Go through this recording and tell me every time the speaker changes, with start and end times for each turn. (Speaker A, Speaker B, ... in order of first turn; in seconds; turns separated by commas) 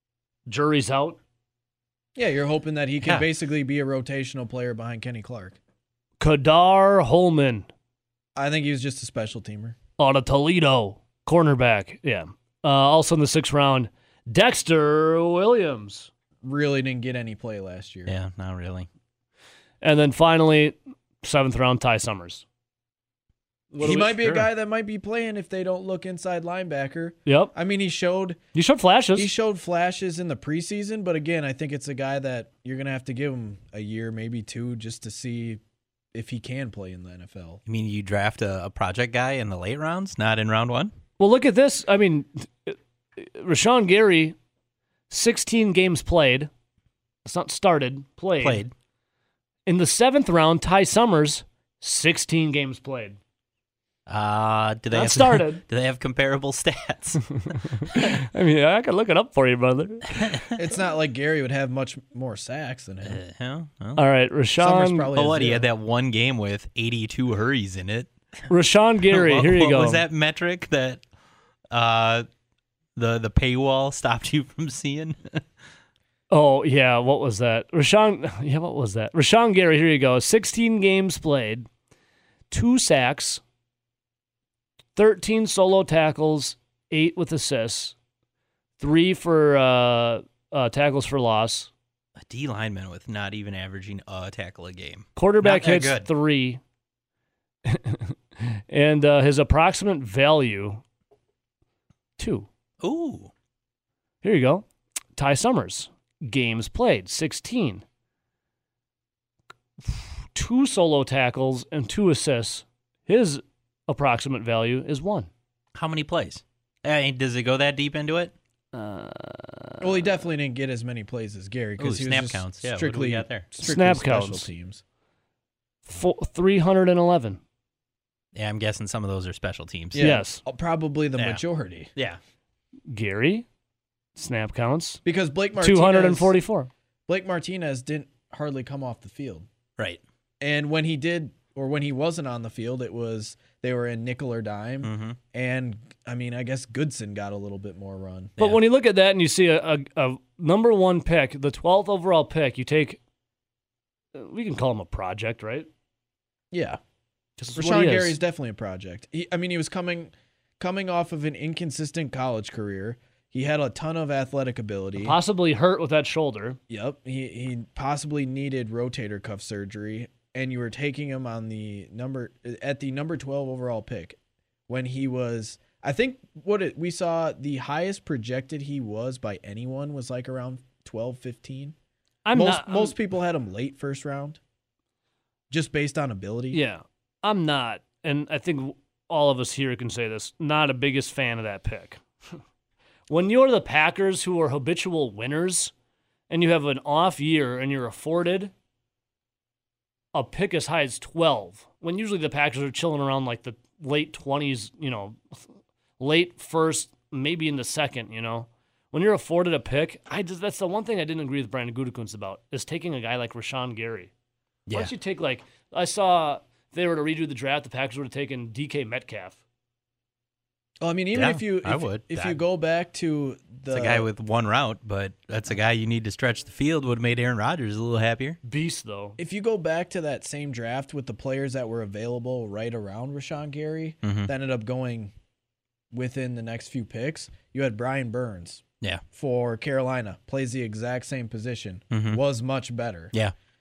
Speaker A: 0.5-1.2, Speaker B: 2.1-5.6, Speaker A: 6.2-7.7, Speaker B: 8.3-9.8, Speaker A: 10.0-16.1, Speaker B: 16.4-18.1, Speaker C: 18.1-18.9, Speaker A: 19.8-22.4, Speaker A: 23.7-24.4, Speaker B: 23.8-28.4, Speaker A: 27.2-27.5, Speaker A: 28.5-29.3, Speaker B: 29.1-35.6, Speaker B: 36.1-37.6, Speaker C: 37.7-40.9, Speaker A: 41.2-44.3, Speaker A: 45.1-46.5, Speaker A: 47.2-48.6, Speaker C: 48.4-48.7, Speaker A: 49.6-53.2, Speaker C: 54.1-58.1, Speaker A: 54.9-55.6, Speaker A: 57.8-60.5, Speaker B: 60.5-63.2, Speaker C: 63.0-64.0, Speaker A: 64.0-65.1, Speaker B: 64.6-65.7, Speaker C: 65.1-68.1, Speaker A: 68.5-70.0, Speaker C: 69.1-71.0, Speaker C: 71.7-72.2, Speaker C: 73.0-75.4, Speaker A: 76.3-81.7, Speaker A: 82.5-83.4, Speaker A: 85.0-87.9, Speaker A: 88.8-91.7, Speaker C: 92.2-96.1, Speaker A: 95.2-96.6, Speaker A: 97.7-100.8, Speaker A: 102.2-102.5, Speaker C: 102.8-103.3, Speaker A: 104.2-107.8, Speaker A: 109.9-115.3, Speaker C: 115.7-118.3, Speaker A: 118.7-120.0, Speaker B: 119.8-124.8, Speaker C: 121.8-123.5, Speaker A: 123.6-124.5, Speaker A: 125.8-127.4, Speaker C: 128.3-130.0, Speaker B: 129.9-131.9, Speaker A: 130.0-130.4, Speaker A: 132.9-133.4, Speaker A: 134.2-135.0, Speaker B: 135.0-136.3, Speaker A: 135.6-136.7, Speaker B: 137.1-139.5, Speaker B: 140.4-148.3, Speaker C: 144.8-145.2, Speaker A: 148.4-153.0, Speaker A: 154.1-155.7, Speaker B: 156.5-156.8, Speaker A: 157.4-158.2, Speaker B: 157.5-165.2, Speaker A: 165.0-166.6, Speaker B: 166.7-181.7, Speaker A: 182.2-182.9, Speaker B: 182.3-184.4, Speaker B: 185.5-186.6, Speaker A: 186.5-192.0, Speaker A: 193.1-195.7, Speaker A: 196.3-198.5, Speaker A: 200.1-205.3, Speaker A: 206.0-214.1, Speaker C: 214.7-214.9, Speaker A: 214.7-219.4, Speaker B: 220.8-224.1, Speaker C: 221.1-222.4, Speaker C: 223.7-228.4, Speaker A: 228.4-229.2, Speaker B: 229.2-235.1, Speaker C: 234.0-234.3, Speaker B: 235.9-243.1, Speaker C: 241.9-242.2